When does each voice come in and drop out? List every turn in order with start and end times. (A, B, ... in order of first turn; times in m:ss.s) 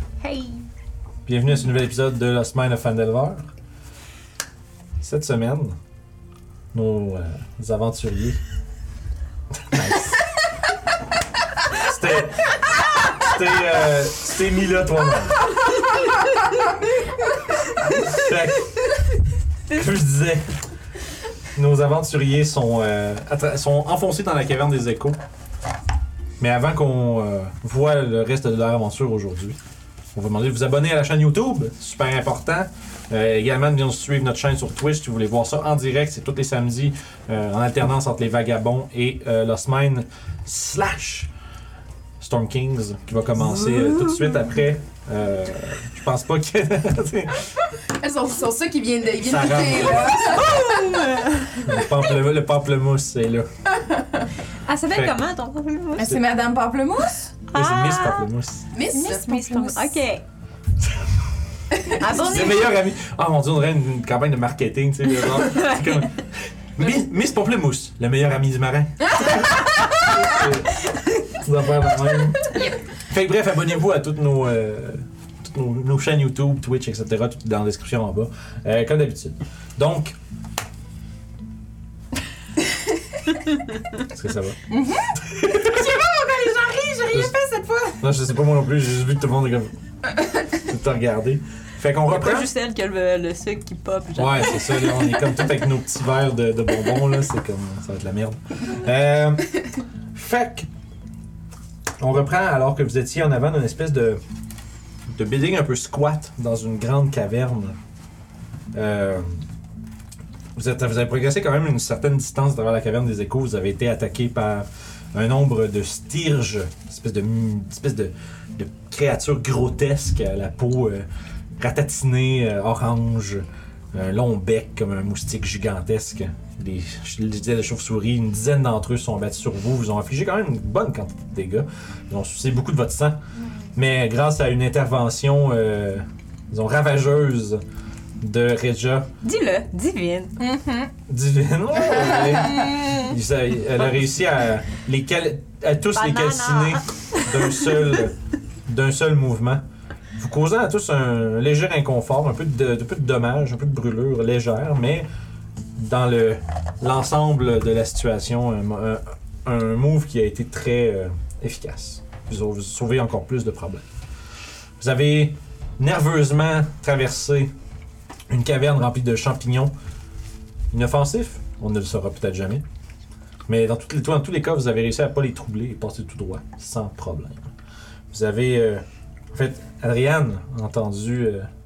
0:00.2-0:00.6 A
0:01.2-0:03.5 B
0:05.0-0:05.8 B
0:06.7-0:08.4 B
0:09.6-0:10.2 B
0:11.7-0:15.5 B
0:17.9-0:18.7 B
0:19.7-0:20.5 B
0:21.5-0:25.2 B
0:26.4-0:29.6 B
0:30.1-0:41.3 B
0:42.2-0:47.5 B
0:47.9-0:50.9 C
0:49.2-0:50.5 B
0:50.1-0:51.8 A
0:51.6-0:53.5 B
0:54.6-0:56.2 A
0:54.9-0:55.2 B
0:56.0-0:57.3 C
0:57.5-0:58.3 A
0:57.5-0:58.6 B
0:58.7-0:59.9 C
0:58.8-1:00.2 A
1:01.8-1:02.0 C
1:01.9-1:02.7 A
1:02.2-1:20.2 B
1:05.5-1:05.8 A
1:24.0-1:24.6 B
1:24.7-1:28.0 C
1:25.4-1:25.8 B
1:28.0-1:29.7 B
1:30.5-1:32.5 B
1:32.1-1:35.4 A
1:34.2-1:39.6 B
1:40.1-1:40.7 B
1:42.0-1:44.2 B
1:45.1-1:47.8 B
1:48.7-1:49.4 B
1:50.6-2:01.0 B
2:01.6-2:13.2 B
2:13.7-2:17.6 B
2:18.2-2:19.1 B
2:19.2-2:20.3 A
2:20.4-2:20.9 C
2:21.1-2:28.1 B
2:25.9-2:27.6 A
2:28.7-2:29.6 B
2:30.2-2:35.1 B
2:35.8-2:43.8 B
2:44.8-2:47.5 B
2:48.3-2:49.7 B
2:50.7-2:52.6 B
2:53.5-2:57.5 B
2:58.1-3:01.5 B